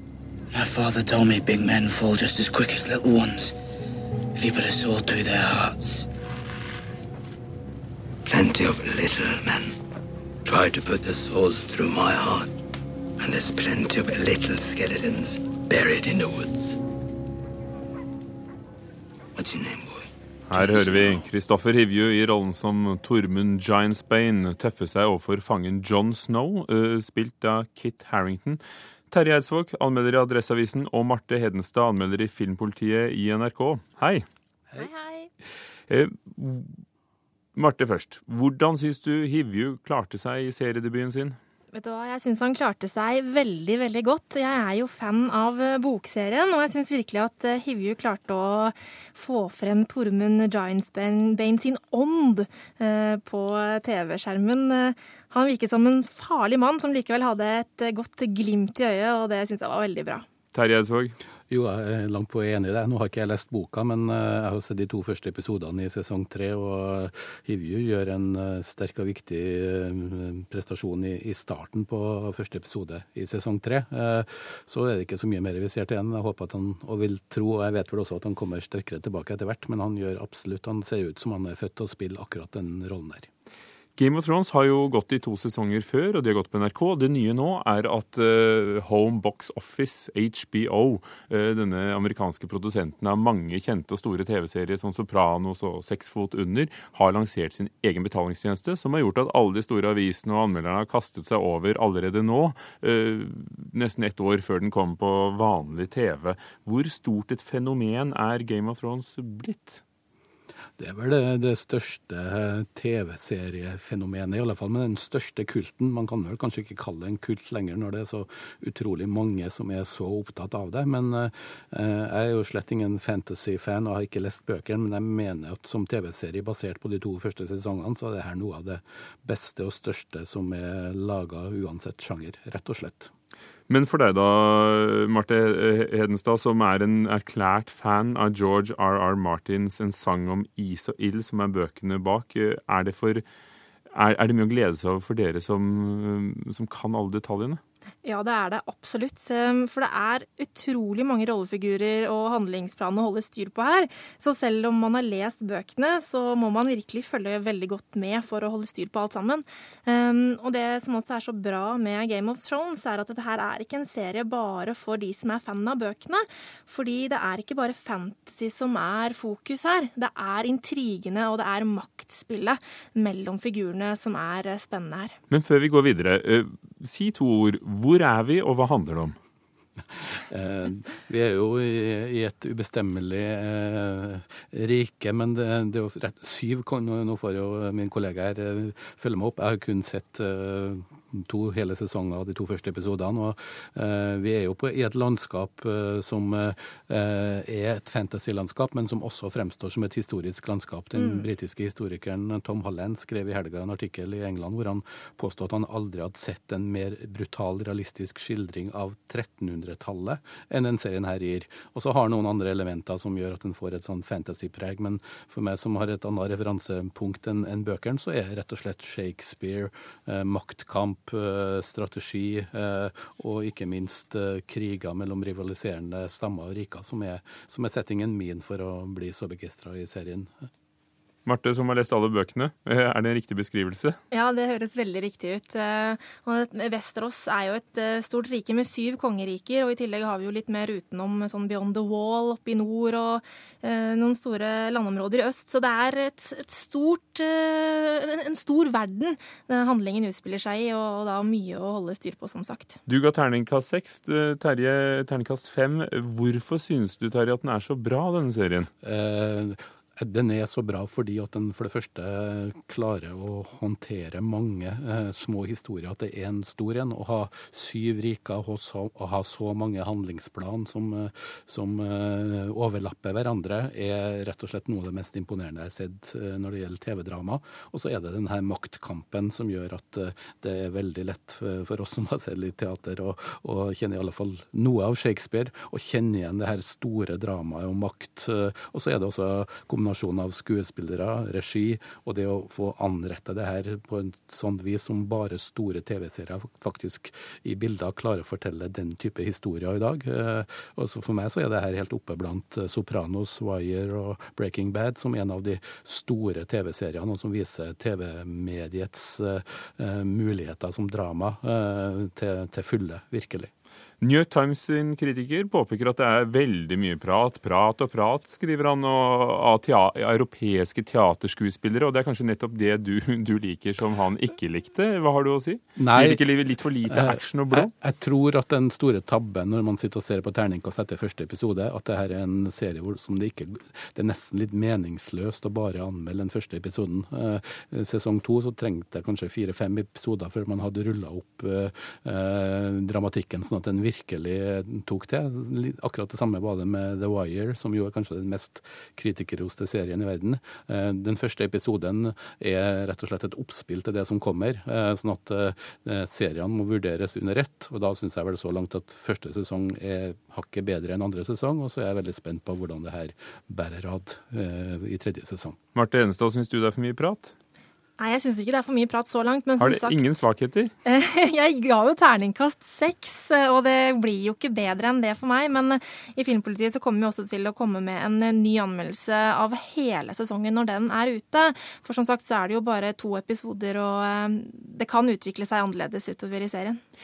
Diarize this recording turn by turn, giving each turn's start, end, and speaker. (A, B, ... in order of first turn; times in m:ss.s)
0:00.5-0:03.5 A
0:04.4-0:06.1 A
0:08.3-0:09.8 B
0:10.4-0:12.5 B
0:13.2-0:16.7 B
0:19.4-0:20.1 B
0:20.5-0:34.2 C
0:34.8-0:35.3 D
0:35.9-0:36.8 C
0:37.6-0:41.4 C
0:41.7-1:00.2 D
1:00.5-1:01.2 C
1:01.5-1:23.3 E
1:24.0-1:49.8 C
1:50.8-2:13.1 E
2:13.7-2:23.2 C
2:23.9-2:27.6 C
2:28.0-2:55.2 D
2:55.3-2:59.2 C
3:00.2-3:50.5 E
3:21.0-3:21.2 D
3:51.2-3:54.0 C
3:54.1-4:12.8 D
4:12.9-4:18.7 C
4:18.8-5:13.5 E
5:14.0-5:27.7 C
5:25.8-5:26.2 E
5:26.8-6:05.6 E
6:05.7-6:07.3 C
6:08.0-6:10.2 D
6:09.6-6:10.7 C
6:10.8-6:26.8 D